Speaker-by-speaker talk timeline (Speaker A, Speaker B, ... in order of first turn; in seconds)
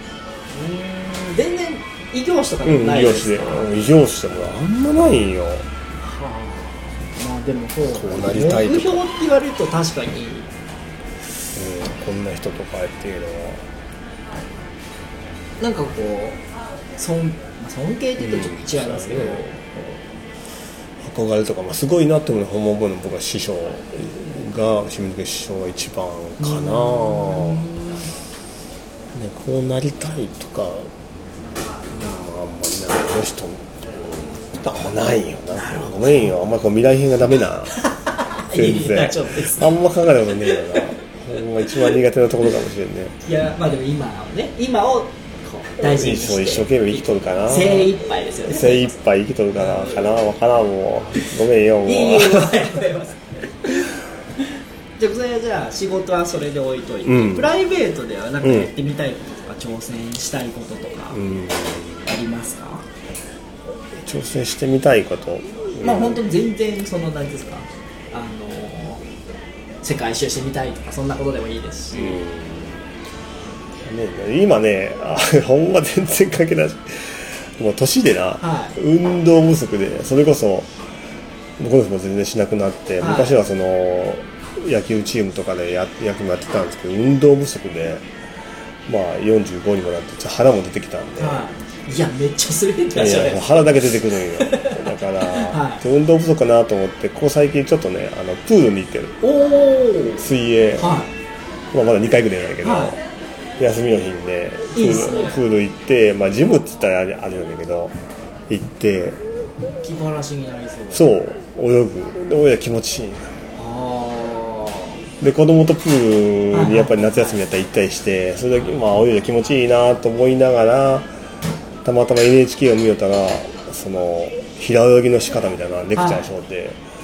Speaker A: 0.5-3.7, 6.0-10.5, 15.6-16.4, 17.0-19.4, 26.4-28.1, 35.5-36.3, 37.8-39.7, 40.5-40.9, 43.2-48.9, 49.6-50.1, 51.8-53.9, 55.0-61.2, 62.1-62.9, 65.8-69.0, 69.8-72.2, 78.4-78.8, 83.0-83.4, 91.2-93.6, 94.4-95.8, 99.2-100.2, 100.8-101.1, 102.6-103.0, 104.7-105.4, 109.8-111.1, 113.5-115.0, 116.5-117.4, 126.0-126.3
Speaker B: 2.6-5.7, 7.9-9.1, 11.5-13.7, 18.2-20.0, 21.0-27.7, 29.1-30.9, 31.9-37.8, 38.5-43.2, 45.8-47.9, 48.5-52.7, 57.0-57.5, 58.4-58.7, 61.1-62.1, 64.0-66.2, 71.9-72.9, 73.8-80.7, 81.6-88.1, 88.9-91.5, 93.0-99.2, 100.2-100.9, 101.7-103.0, 103.6-108.0, 108.5-109.2, 110.9-113.3, 115.2-121.1, 121.8-126.8